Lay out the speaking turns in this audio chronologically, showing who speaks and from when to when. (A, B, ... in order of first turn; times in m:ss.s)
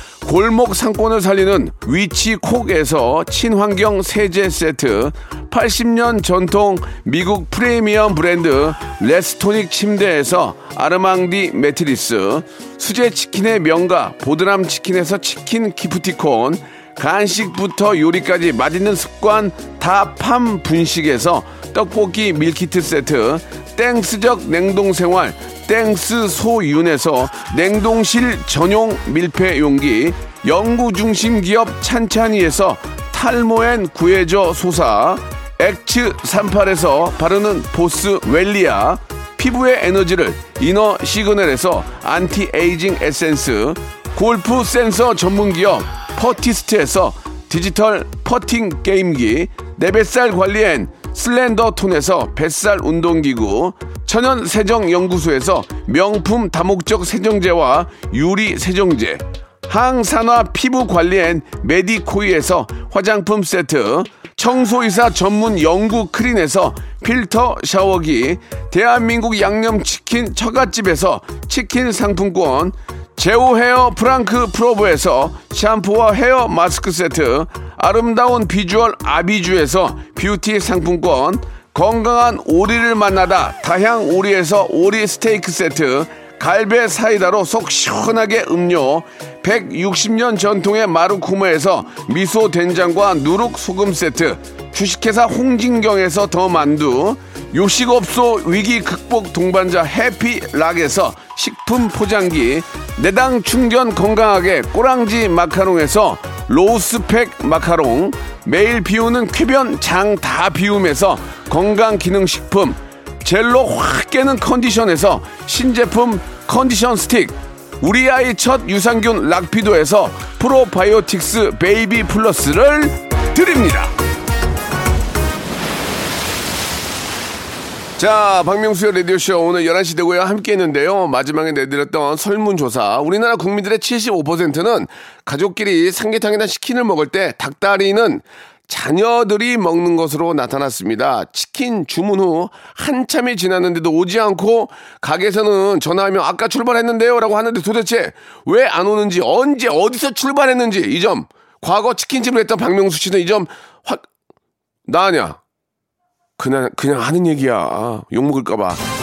0:00.2-2:04.0 A
2:08.0-2:34.0 A
2:34.9-2:35.4 A
2:36.4-2:38.8 A